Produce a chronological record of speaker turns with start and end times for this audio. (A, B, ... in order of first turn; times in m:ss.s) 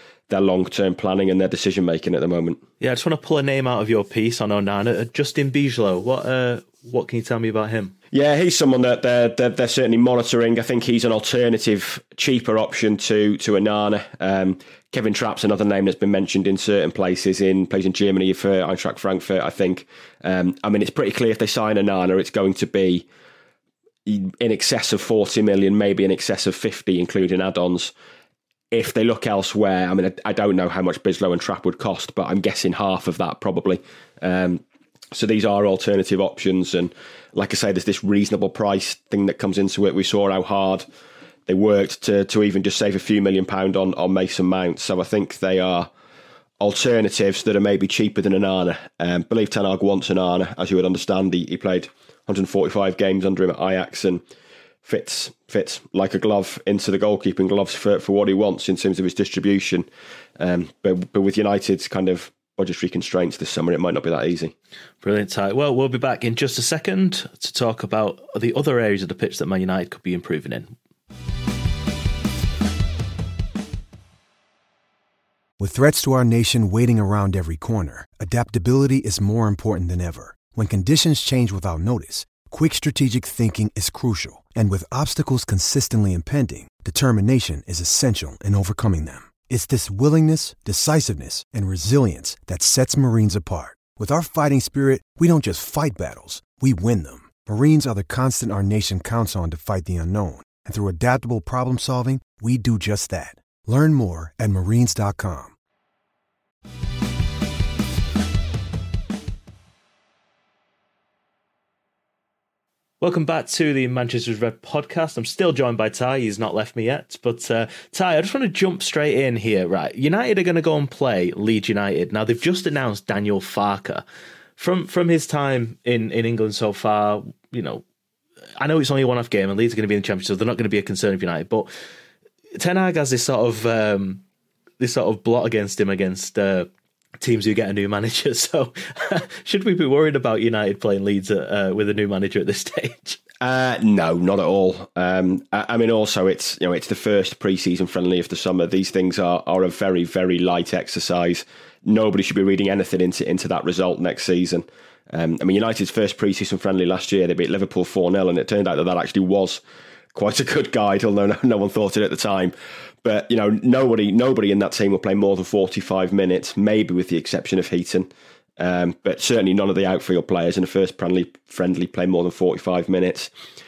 0:00.3-0:02.6 A
0:02.8-0:08.0 B
0:08.1-0:23.1 A
0:24.1-0:27.9 A
0:28.7-0:40.9 A
0:41.5-0:45.9 A
0:46.6-0:54.2 A
0:54.8-0:59.9 A
1:00.4-1:04.5 A
1:05.0-1:10.7 B
1:15.6-1:45.5 C
1:53.0-2:04.0 B
2:04.6-2:07.8 B
2:08.6-2:11.7 B
2:12.6-2:14.2 B
2:14.8-2:16.7 B
2:17.2-2:23.2 B
2:23.4-2:39.6 A
2:40.1-2:53.3 A